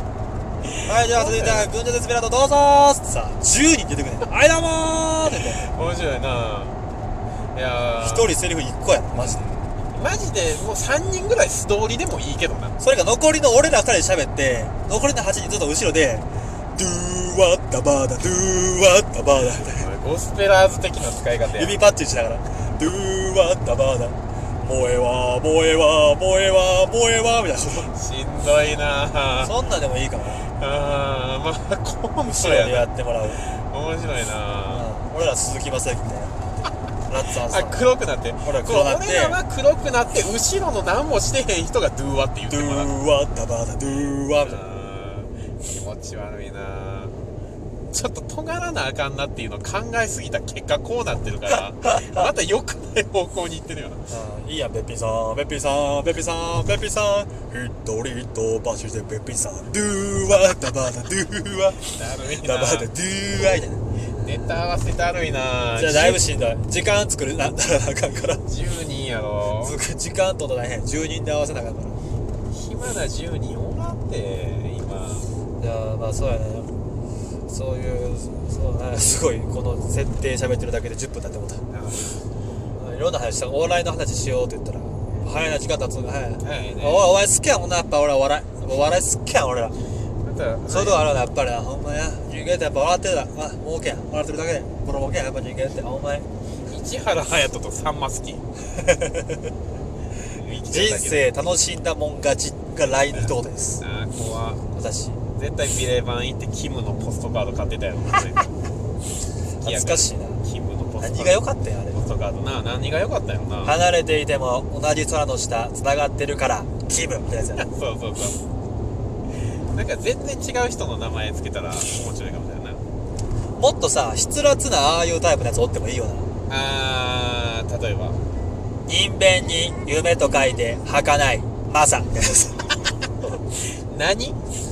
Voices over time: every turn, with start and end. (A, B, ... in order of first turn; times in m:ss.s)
0:00.6-0:01.7 A
0:00.8-0:05.7 B
0:05.4-0:06.8 A
0:07.5-0:08.3 A
0:08.0-0:09.4 B
0:09.1-0:12.8 A
0:12.8-0:19.9 B
0:19.6-0:21.8 A
0:21.6-0:27.9 B
0:27.9-0:29.5 A
0:29.4-0:30.4 B
0:30.5-0:34.9 A
0:32.2-0:33.4 B
0:34.7-0:37.9 B
0:37.5-0:42.9 A
0:38.4-0:39.4 B
0:42.5-0:44.6 B
0:44.4-0:47.2 A
0:47.9-0:54.1 A
0:54.1-1:03.9 B
1:01.9-1:02.9 A
1:04.2-1:06.2 A
1:05.8-1:08.4 B
1:08.4-1:09.8 A
1:09.6-1:12.0 B
1:12.5-1:15.3 A
1:15.6-1:16.7 B
1:17.5-1:21.6 B
1:21.7-1:22.2 A
1:22.7-1:29.8 B
1:26.4-1:27.1 A
1:30.2-1:31.1 A
1:30.7-1:36.3 B
1:36.6-1:38.4 A
1:38.7-1:39.4 B
1:40.3-1:41.3 A
1:40.7-1:43.8 B
1:43.1-1:44.6 A
1:44.7-1:45.2 B
1:45.3-1:48.5 A
1:49.6-1:50.4 B
1:49.6-1:53.8 A
1:51.0-1:52.0 B
1:53.6-1:57.7 B
1:57.6-1:58.4 A
1:59.7-2:02.8 A
2:03.6-2:06.3 B
2:06.5-2:08.2 A
2:08.9-2:13.4 B
2:13.7-2:14.4 A